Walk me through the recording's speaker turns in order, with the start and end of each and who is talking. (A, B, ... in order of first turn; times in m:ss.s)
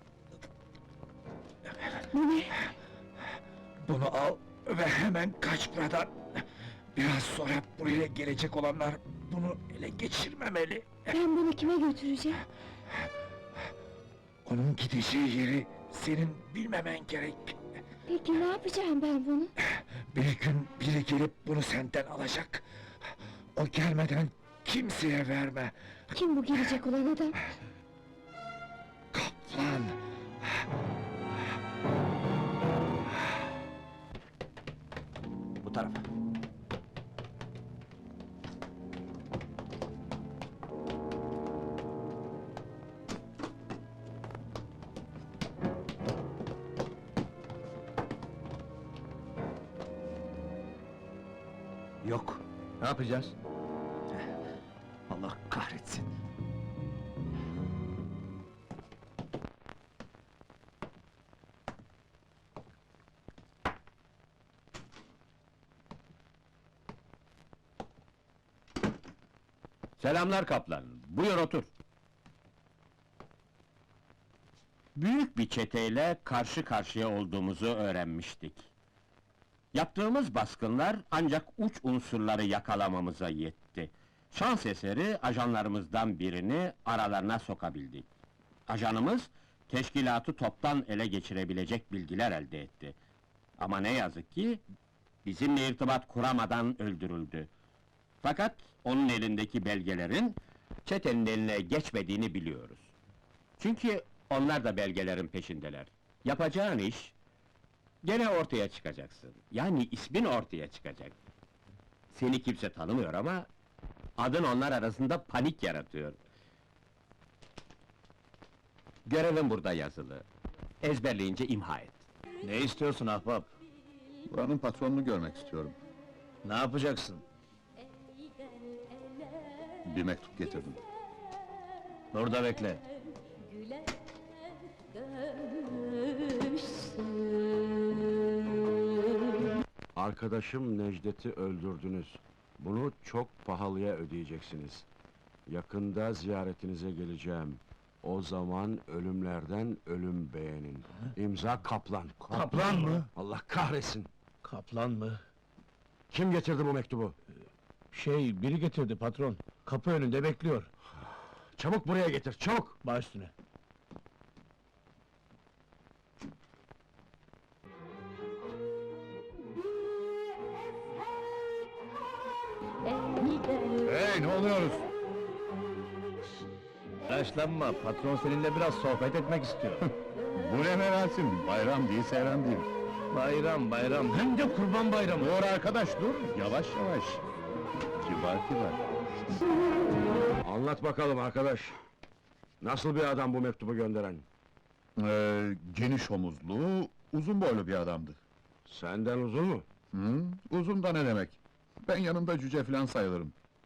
0:02.1-0:02.7 A
0:03.9-0:06.1 B
0:07.0-0:10.9 B
0:11.1-0:12.4 A
0:14.5-0:17.4 B
0:18.1-0:19.5 A
0:20.1-0:22.6 B
0:23.6-0:25.7 B
0:26.1-0:27.4 A
0:29.2-0:29.9 B
0:52.0-0:53.3 C
0:55.1-0:56.0 C
1:10.0-1:11.7 D
1:15.0-1:18.7 D
1:19.7-1:28.1 D
1:28.7-1:33.0 D
1:33.6-1:34.6 D
1:35.2-1:37.5 D
1:38.2-1:42.9 D
1:43.6-1:47.1 D
1:48.0-1:51.2 D
1:52.1-1:53.5 D
1:54.2-1:56.2 D
1:59.1-2:00.2 D
2:00.8-2:02.0 D
2:02.4-2:03.5 C
2:04.3-2:05.8 E
2:06.4-2:07.2 C
2:09.8-2:10.8 E
2:12.1-2:12.8 C
2:20.0-2:24.9 F
2:25.5-2:34.1 F
2:32.3-2:33.1 C
2:34.4-2:35.2 C
2:36.1-2:37.2 F
2:37.9-2:40.7 C
2:41.6-2:42.8 F
2:42.8-2:43.3 C
2:53.9-2:54.7 C
2:54.2-2:54.6 E
2:57.1-2:59.9 C
3:00.4-3:02.7 E
3:03.1-3:05.3 C
3:05.2-3:07.2 E
3:08.0-3:08.8 E
3:10.4-3:11.8 F
3:12.6-3:14.2 F
3:15.0-3:18.2 E
3:18.7-3:19.7 F
3:19.9-3:23.3 E